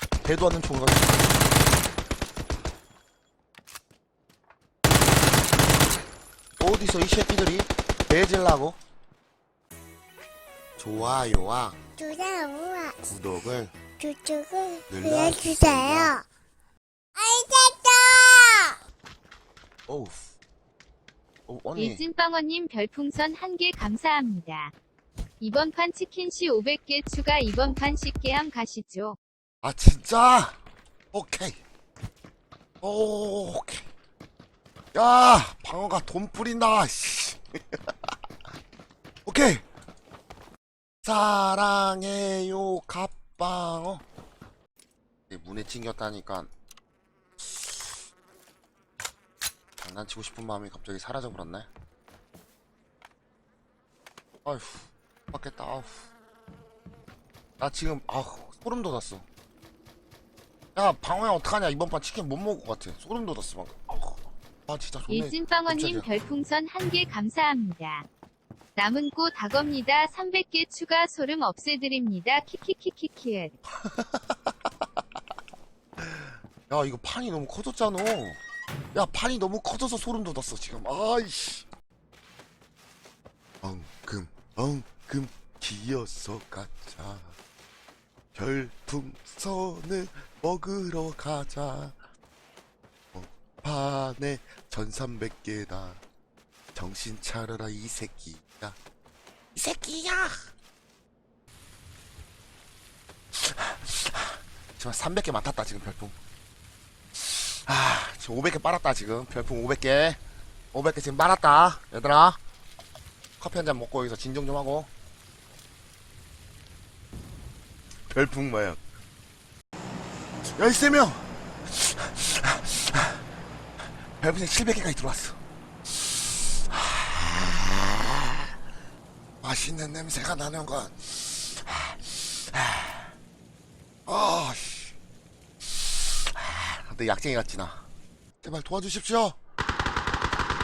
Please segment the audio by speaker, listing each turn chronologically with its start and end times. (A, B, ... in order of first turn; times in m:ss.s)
0:00.2-0:01.3 A
0:06.6-0:08.8 A
0:10.8-0:11.8 A
0:12.0-0:13.0 B
0:13.0-0:13.8 A
0:14.0-0:16.3 B
0:14.9-0:16.1 A
0:17.2-0:18.8 B
0:19.9-0:20.3 A
0:21.5-0:22.0 A
0:21.8-0:24.7 C
0:25.4-0:29.2 C
0:29.6-0:30.6 A
0:31.1-0:31.6 A
0:32.8-0:33.9 A
0:34.9-0:38.1 A
0:39.3-0:39.6 A
0:41.0-0:44.0 A
0:45.3-0:46.5 A
0:47.4-0:48.0 A
0:49.8-0:51.7 A
0:54.4-0:56.0 A
0:57.6-0:59.2 A
1:00.8-1:06.1 A
1:05.1-1:08.1 C
1:08.8-1:13.6 C
1:13.7-1:14.9 A
1:16.0-1:18.4 A
1:18.9-1:21.7 A
1:23.6-1:27.4 A
1:28.3-1:32.0 A
1:33.1-1:36.0 A
1:36.8-1:38.8 A
1:39.6-1:40.5 A
1:43.3-1:46.2 A
1:47.2-1:50.2 A
1:50.7-1:52.4 A
1:53.4-1:54.9 A
1:58.1-1:58.8 A
2:00.6-2:03.2 A
2:04.2-2:08.5 A
2:09.4-2:13.1 A
2:14.1-2:15.0 A
2:15.6-2:17.9 A
2:18.4-2:19.4 A